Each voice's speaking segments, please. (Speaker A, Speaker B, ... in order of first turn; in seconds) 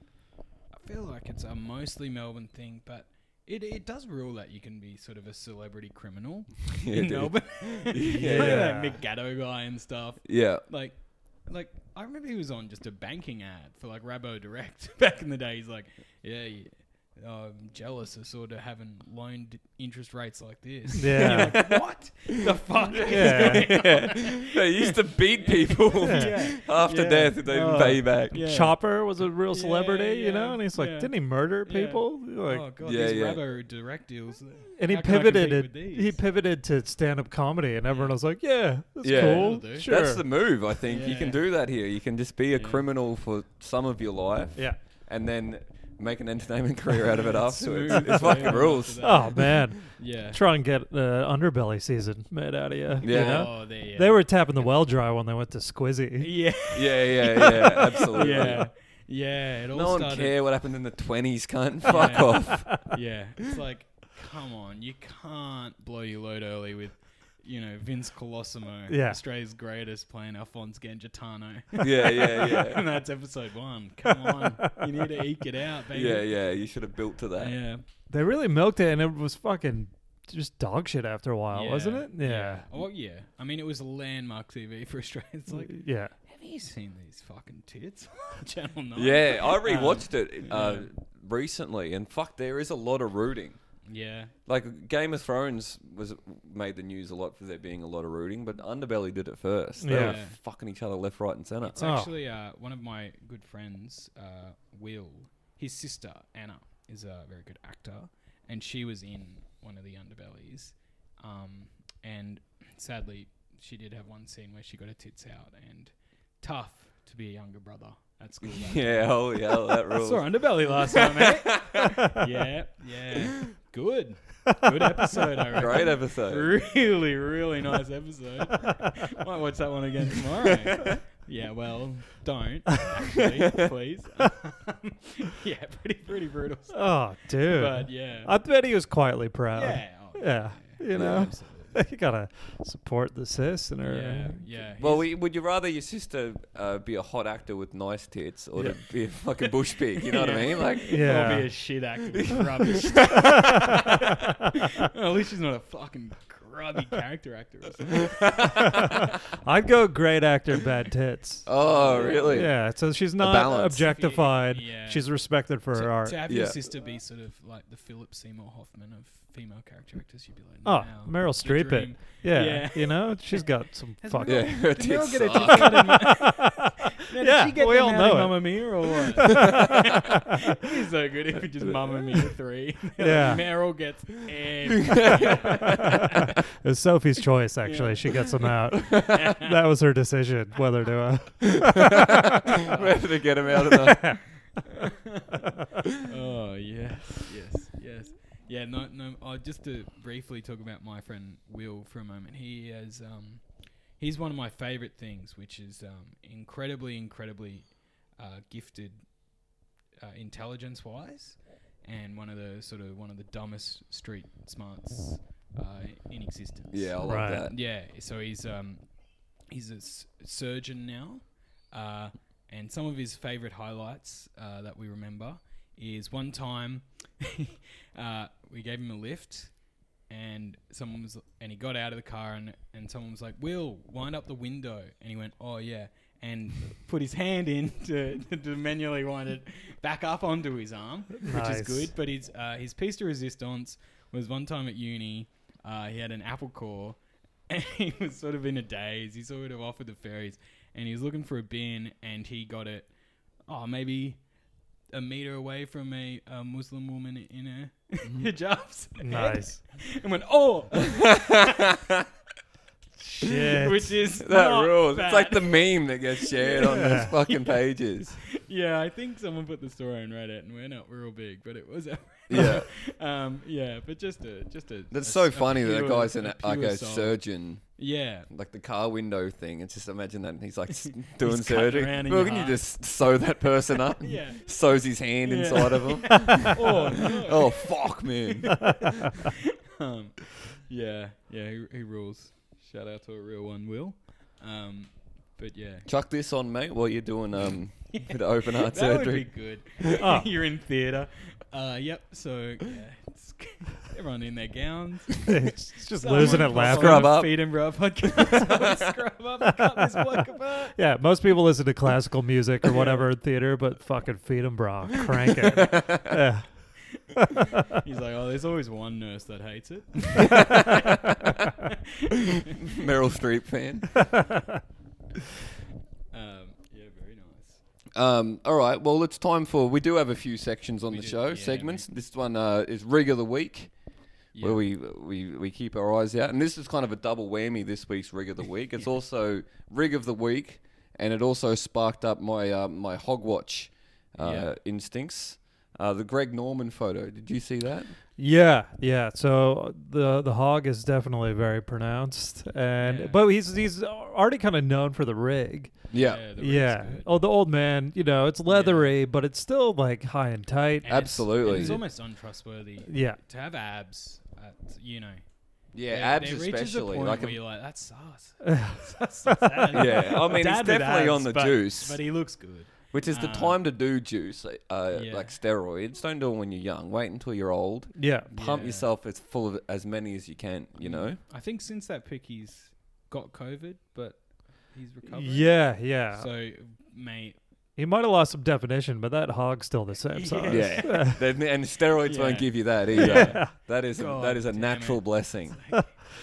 Speaker A: 0.7-36.2, 37.9-38.2, 39.1-39.9, 40.9-41.4, 42.5-42.8, 47.3-50.4, 53.0-54.7, 56.2-60.3, 61.9-76.5, 77.4-77.8, 81.5-90.9, 93.8-94.3, 99.9-100.4, 101.7-138.3, 139.5-141.8, 143.8-145.1, 150.0-154.0, 154.6-158.3, 161.6-162.5, 163.7-186.3, 187.6-189.6, 192.6-193.1, 194.6-209.1, 210.0-252.9, 253.4-254.2, 254.9-261.3, 263.3-278.3, 280.9-282.9, 284.0-295.9, 297.9-310.8, 312.7-313.0, 317.0-322.4, 326.1-327.6, 330.9-331.8, 334.3-334.6, 344.2-344.5, 352.8-353.2, 355.9-357.1, 358.5-358.9, 360.8-373.6, 374.9-375.4, 378.3-378.9, 380.8-387.4, 390.1-391.2, 392.0-395.9
Speaker B: 6.8-8.8, 10.2-10.6, 21.2-21.8, 22.4-28.4, 32.8-33.4, 39.0-49.4, 53.0-53.5, 56.7-58.7, 59.7-62.9, 71.8-72.8, 75.9-77.5, 89.0-93.6, 94.5-101.8, 118.4-121.8, 125.5-126.5, 140.9-141.3, 144.8-151.0, 152.2-153.9, 158.2-158.9, 161.4-162.5, 163.2-163.8, 166.3-166.6, 174.2-175.9, 184.9-185.7, 188.8-189.1, 191.5-194.2, 216.7-217.5, 260.9-262.0, 264.2-268.2, 272.3-272.7, 274.9-289.1, 295.9-299.3, 306.5-307.6, 308.3-308.6, 315.5-316.2, 320.3-321.3, 322.6-323.9, 327.9-333.7, 334.4-347.9, 355.9-356.2, 360.9-361.8, 365.7-367.4, 369.7-372.0, 372.9-381.2, 390.5-395.6
Speaker C: 8.2-9.0, 21.0-21.6, 23.1-23.8, 26.1-26.4, 28.3-32.6, 34.8-40.2, 49.0-56.3, 68.9-69.2, 74.1-75.1, 78.1-82.7, 85.5-86.1, 99.8-100.2, 101.8-102.1, 124.6-125.2, 136.7-144.4, 150.8-151.5, 158.8-161.5, 162.2-166.2, 170.6-174.5, 175.3-180.2, 183.0-183.4, 186.6-192.4, 193.7-194.2, 217.0-217.5, 241.2-241.9, 259.0-259.6, 263.2-263.9, 266.6-267.1, 300.0-300.3, 305.3-307.2, 309.5-310.0, 310.7-317.3, 324.1-324.6, 348.2-355.8, 356.4-361.9, 362.9-363.2, 368.4-370.0, 377.9-378.3, 385.1-386.3, 387.8-391.2, 392.9-393.5